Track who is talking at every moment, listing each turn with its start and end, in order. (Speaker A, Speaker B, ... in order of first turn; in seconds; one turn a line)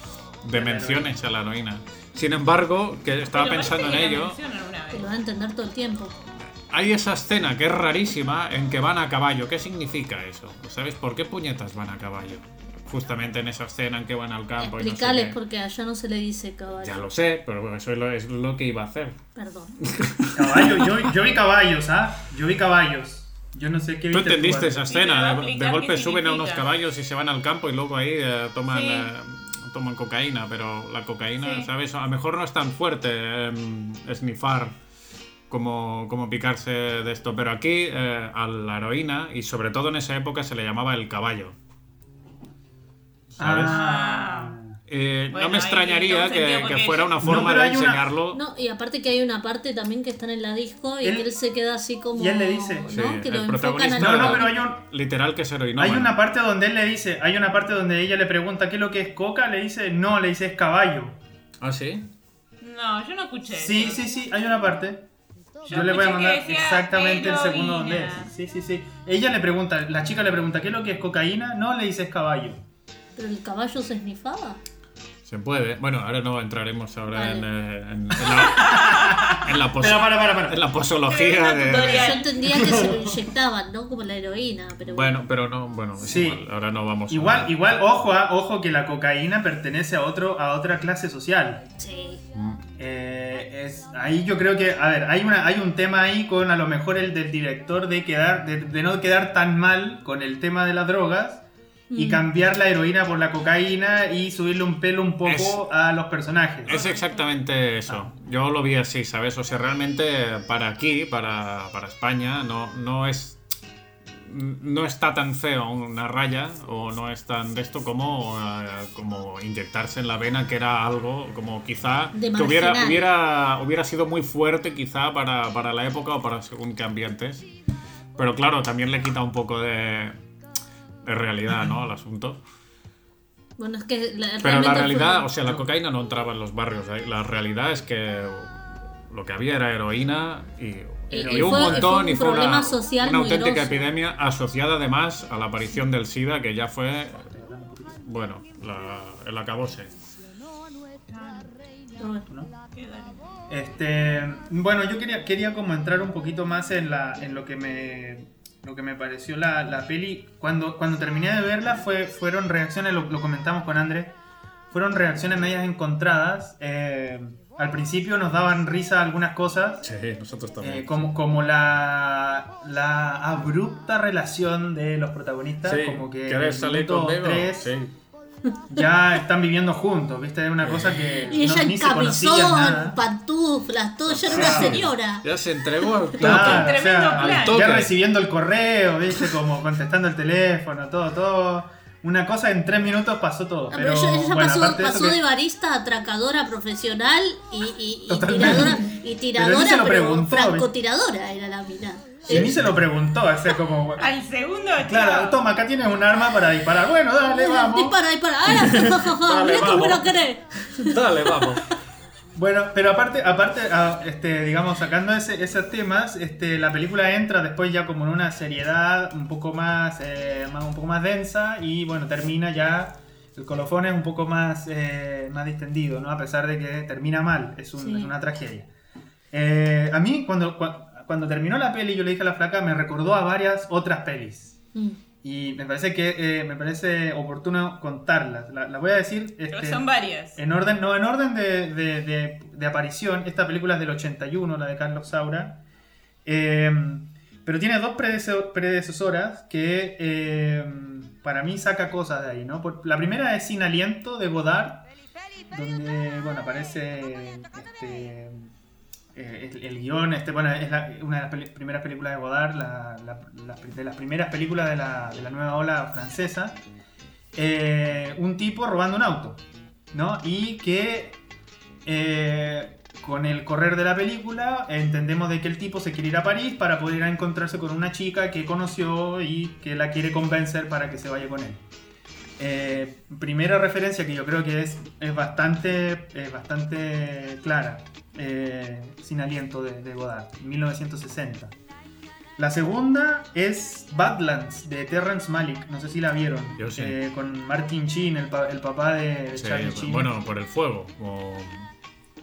Speaker A: 0.4-4.4
Speaker B: 0.5-1.1
Speaker C: 3.3-5.0
Speaker D: 4.9-6.1
Speaker A: 6.7-15.4
Speaker D: 14.6-17.0
Speaker A: 16.8-19.2
Speaker D: 19.4-19.8
Speaker A: 19.8-21.1
Speaker B: 20.3-24.8
Speaker A: 24.1-34.8
Speaker C: 24.6-26.7
Speaker C: 28.7-29.1
Speaker C: 31.4-31.7
Speaker A: 35.5-41.5
Speaker A: 43.4-43.8
Speaker B: 43.4-44.8
Speaker C: 43.6-44.6
Speaker A: 44.9-48.4
Speaker C: 45.3-47.4
Speaker B: 47.2-48.0
Speaker D: 48.3-54.5
Speaker B: 51.0-51.3
Speaker B: 52.1-52.9
Speaker A: 52.9-56.1
Speaker B: 53.9-54.8
Speaker B: 55.8-61.1
Speaker A: 61.6-62.1
Speaker C: 62.6-64.0
Speaker B: 63.5-65.1
Speaker B: 65.6-72.6
Speaker C: 65.7-68.3
Speaker D: 73.2-74.6
Speaker A: 75.2-82.2
Speaker D: 77.1-77.5
Speaker B: 78.4-80.6
Speaker C: 78.5-79.2
Speaker C: 81.1-82.8
Speaker D: 81.7-85.1
Speaker B: 82.4-83.3
Speaker A: 84.8-87.5
Speaker B: 86.0-86.5
Speaker B: 87.1-91.6
Speaker D: 91.8-92.2
Speaker A: 92.3-92.7
Speaker B: 92.8-106.8
Speaker D: 101.9-102.2
Speaker A: 105.2-105.6
Speaker A: 106.7-113.4
Speaker C: 106.7-107.3
Speaker A: 114.1-127.4
Speaker D: 122.1-123.0
Speaker A: 128.2-130.2
Speaker A: 131.0-132.4
Speaker D: 133.6-135.3
Speaker A: 134.4-147.3
Speaker D: 141.1-143.8
Speaker B: 141.2-141.8
Speaker B: 147.2-148.0
Speaker A: 148.0-149.9
Speaker C: 151.1-151.5
Speaker D: 152.0-152.3
Speaker C: 152.7-153.2
Speaker B: 153.5-164.2
Speaker B: 164.7-169.8
Speaker A: 169.8-171.1
Speaker B: 170.6-177.7
Speaker A: 175.6-177.9
Speaker B: 178.7-183.0
Speaker A: 180.6-181.3
Speaker D: 181.3-185.2
Speaker A: 184.1-187.9
Speaker B: 184.2-184.8
Speaker B: 186.2-195.2
Speaker C: 186.2-187.6
Speaker D: 193.7-202.5
Speaker B: 198.1-200.7
Speaker B: 202.2-204.1
Speaker A: 202.3-202.8
Speaker C: 204.0-205.4
Speaker B: 204.8-208.0
Speaker D: 207.2-211.0
Speaker A: 208.5-211.7
Speaker B: 208.5-210.0
Speaker B: 212.3-228.7
Speaker D: 227.8-228.1
Speaker B: 229.3-234.6
Speaker B: 235.2-245.6
Speaker C: 239.5-240.4
Speaker B: 246.2-254.9
Speaker B: 255.5-258.5
Speaker B: 259.1-266.6
Speaker B: 267.3-271.2
Speaker B: 271.8-281.6
Speaker B: 282.4-291.6
Speaker B: 292.4-300.1
Speaker A: 296.6-297.0
Speaker A: 299.3-301.7